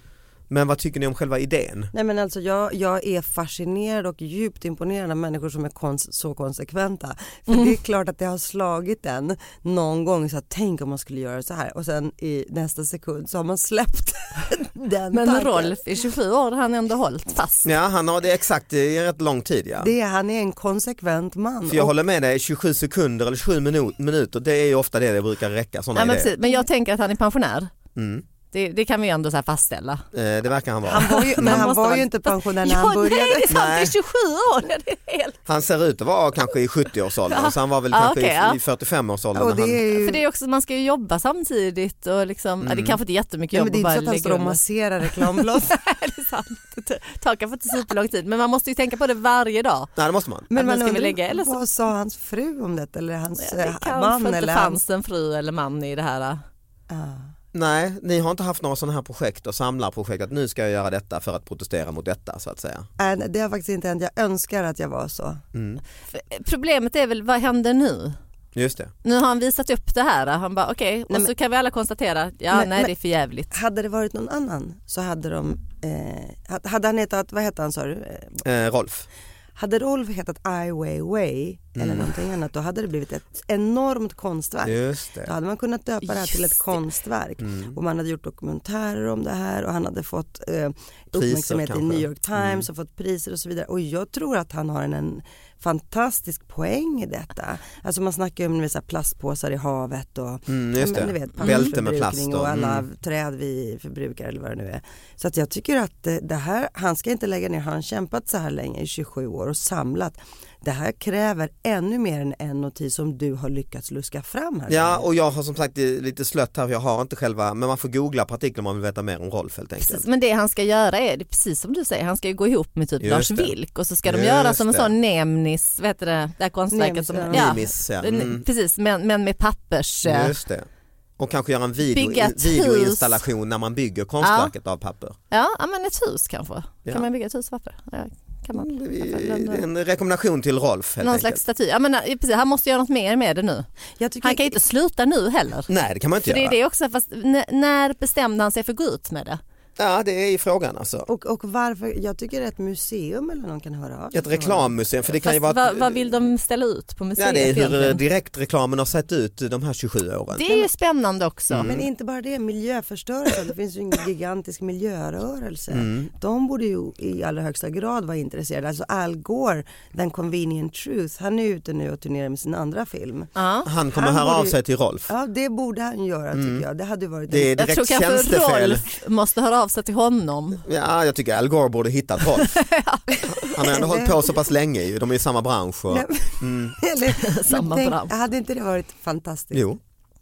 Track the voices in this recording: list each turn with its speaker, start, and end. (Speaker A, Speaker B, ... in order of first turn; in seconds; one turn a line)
Speaker A: 0.5-1.9
Speaker B: 1.9-15.8
Speaker C: 15.1-17.7
Speaker A: 17.6-19.9
Speaker B: 19.8-21.9
Speaker A: 21.7-26.3
Speaker C: 25.9-27.7
Speaker A: 27.9-28.2
Speaker C: 28.5-30.0
Speaker A: 30.1-31.7
Speaker B: 30.9-33.5
Speaker C: 31.1-35.4
Speaker A: 33.5-33.9
Speaker A: 35.5-39.8
Speaker C: 37.3-38.6
Speaker B: 39.4-40.2
Speaker C: 40.0-44.6
Speaker A: 42.6-43.0
Speaker B: 43.5-45.7
Speaker C: 45.4-49.9
Speaker A: 50.0-50.5
Speaker B: 50.5-54.8
Speaker C: 50.5-51.6
Speaker C: 53.4-56.4
Speaker B: 56.9-57.3
Speaker A: 57.5-62.9
Speaker B: 63.0-65.4
Speaker A: 65.5-65.8
Speaker C: 66.1-68.2
Speaker A: 68.5-68.9
Speaker C: 69.0-73.5
Speaker B: 72.5-72.9
Speaker B: 73.5-78.4
Speaker A: 78.4-79.1
Speaker B: 79.6-115.0
Speaker A: 81.8-82.2
Speaker A: 84.6-85.3
Speaker C: 86.1-86.8
Speaker A: 87.4-87.8
Speaker A: 91.1-92.7
Speaker A: 100.5-102.8
Speaker C: 101.4-101.8
Speaker A: 114.7-120.1
Speaker C: 119.8-130.3
Speaker A: 123.0-124.9
Speaker B: 126.7-127.7
Speaker A: 127.3-128.4
Speaker A: 130.1-130.7
Speaker A: 131.2-135.2
Speaker C: 131.9-133.2
Speaker C: 134.2-134.5
Speaker C: 135.3-139.6
Speaker A: 138.5-141.4
Speaker C: 141.0-143.7
Speaker B: 144.0-144.6
Speaker C: 144.2-145.7
Speaker A: 145.7-146.6
Speaker C: 146.2-149.4
Speaker A: 149.8-151.1
Speaker B: 151.1-154.8
Speaker A: 154.1-156.1
Speaker C: 155.1-158.0
Speaker A: 157.2-160.5
Speaker C: 160.3-161.7
Speaker A: 161.5-161.9
Speaker B: 161.6-173.3
Speaker A: 165.7-166.1
Speaker C: 173.4-173.7
Speaker A: 173.7-175.1
Speaker B: 173.9-174.6
Speaker B: 175.1-177.5
Speaker A: 176.3-176.7
Speaker A: 177.3-178.9
Speaker C: 177.6-180.6
Speaker A: 180.7-182.6
Speaker C: 182.4-183.7
Speaker A: 183.3-186.8
Speaker B: 183.7-184.1
Speaker B: 185.9-189.7
Speaker C: 187.2-188.1
Speaker A: 189.5-189.8